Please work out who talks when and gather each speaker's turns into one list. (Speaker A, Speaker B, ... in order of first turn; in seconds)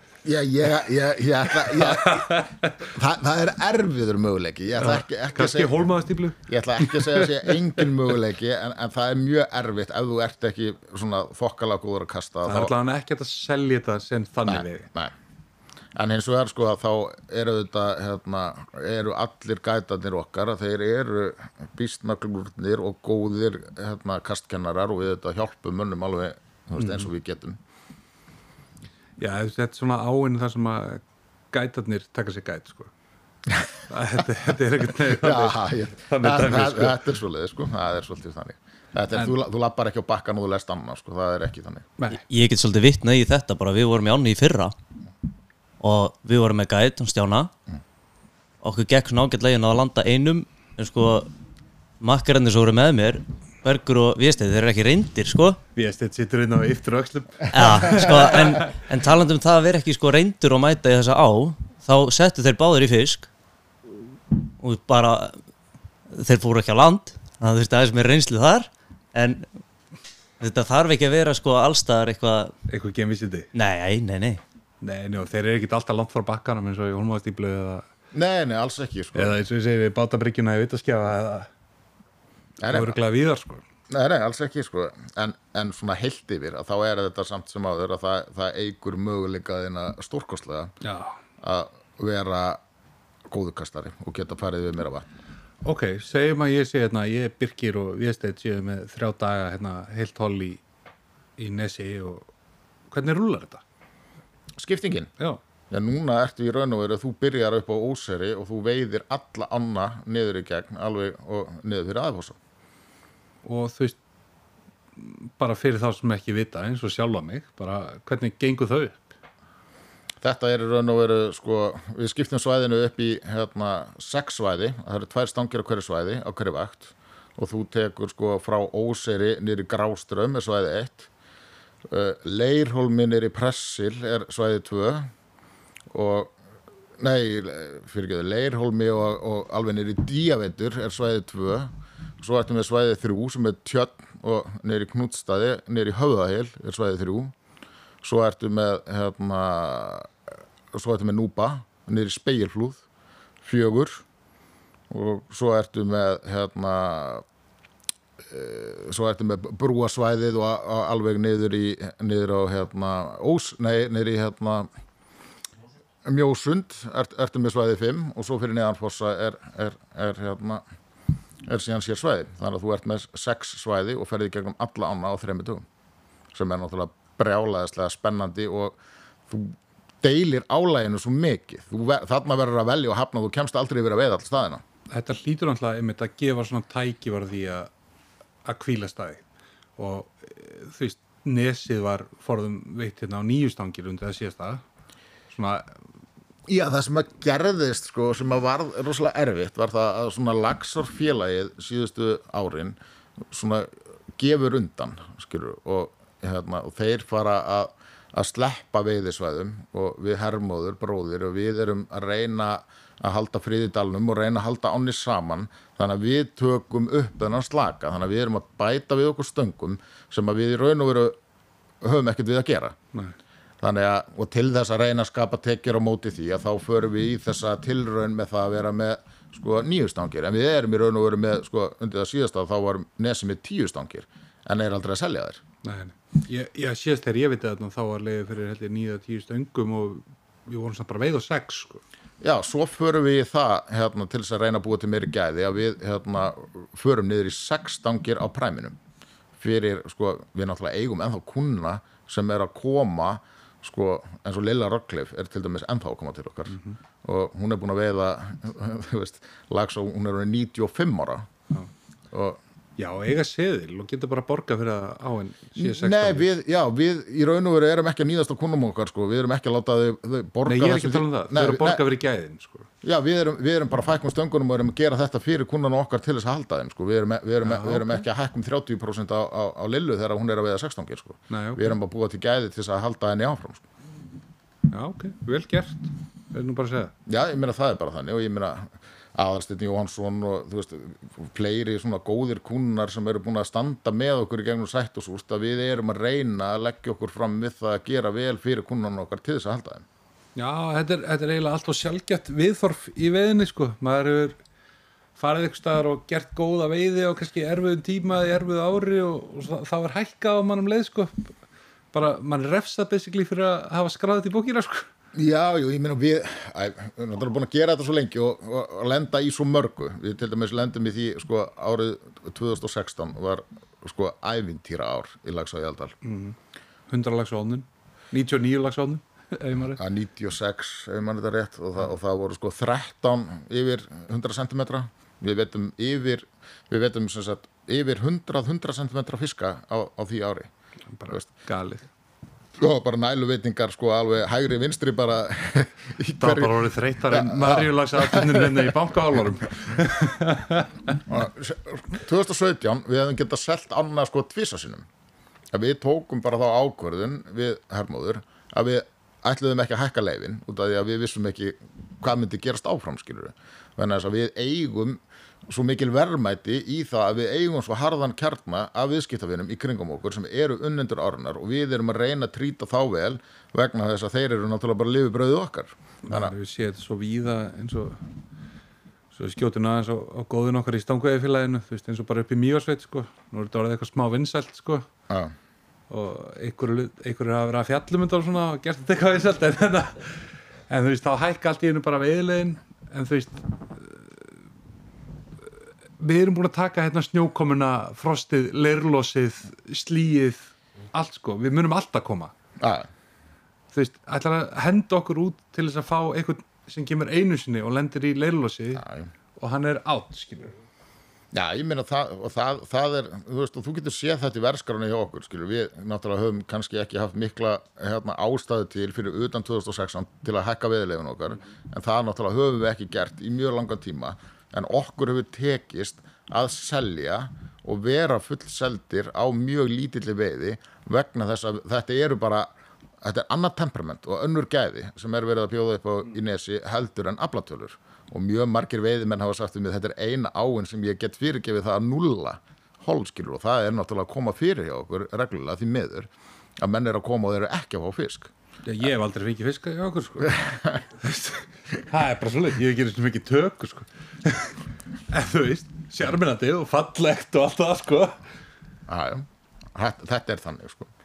Speaker A: 0.2-5.8, 6.5-12.7, 14.5-15.1, 16.0-27.6, 33.5-33.7, 35.0-41.9, 78.1-79.3, 82.6-83.0, 83.9-90.7, 91.4-92.6, 93.3-95.1, 104.6-105.1, 105.7-112.4, 120.2-131.1, 131.9-135.1, 135.9-136.3, 137.0-147.3, 148.0-150.1, 150.7-152.8, 153.4-154.1, 154.9-157.2, 158.3-164.7, 166.1-170.6, 171.4-175.7, 176.3-178.8, 179.3-184.6, 196.5-202.8, 203.3-221.2, 221.8-222.8, 223.6-235.4, 242.2-248.8, 249.4-261.3, 262.1-262.4, 265.6-271.8, 272.8-283.6, 287.1-299.9, 315.1-325.9, 329.8-340.5, 342.6-348.7, 351.1-354.9, 355.5-376.3, 385.1-385.3, 402.6-402.9, 408.8-409.1, 411.3-432.5, 433.0-448.3, 450.4-450.8, 458.9-460.9
Speaker B: 1.5-2.9, 4.8-7.9, 12.4-14.9, 26.8-27.1, 29.2-32.9, 33.9-37.0, 42.0-42.2, 55.8-58.7, 72.7-73.5, 74.8-77.9, 79.2-81.5, 82.7-83.6, 90.8-91.2, 95.6-100.6, 101.4-102.3, 102.9-103.6, 113.5-114.0, 115.0-119.1, 184.9-187.7, 188.4-189.2, 189.8-194.6, 195.3-195.7, 235.6-241.8, 256.5-256.8, 262.8-266.3, 270.5-272.7, 277.4-278.0, 281.3-281.8, 284.7-286.9, 300.4-304.4, 305.2-311.4, 311.9-314.9, 326.0-326.4, 326.9-329.8, 341.0-341.9, 346.2-351.0, 376.1-378.0, 379.1-384.9, 385.9-394.1, 396.0-402.3, 403.7-408.9, 409.4-410.6, 448.7-454.6, 455.1-458.2
Speaker C: 42.3-44.8, 45.8-47.5, 48.6-51.3, 52.0-55.6, 57.5-63.3, 64.5-65.4, 66.1-69.5, 70.4-72.5, 73.5-74.4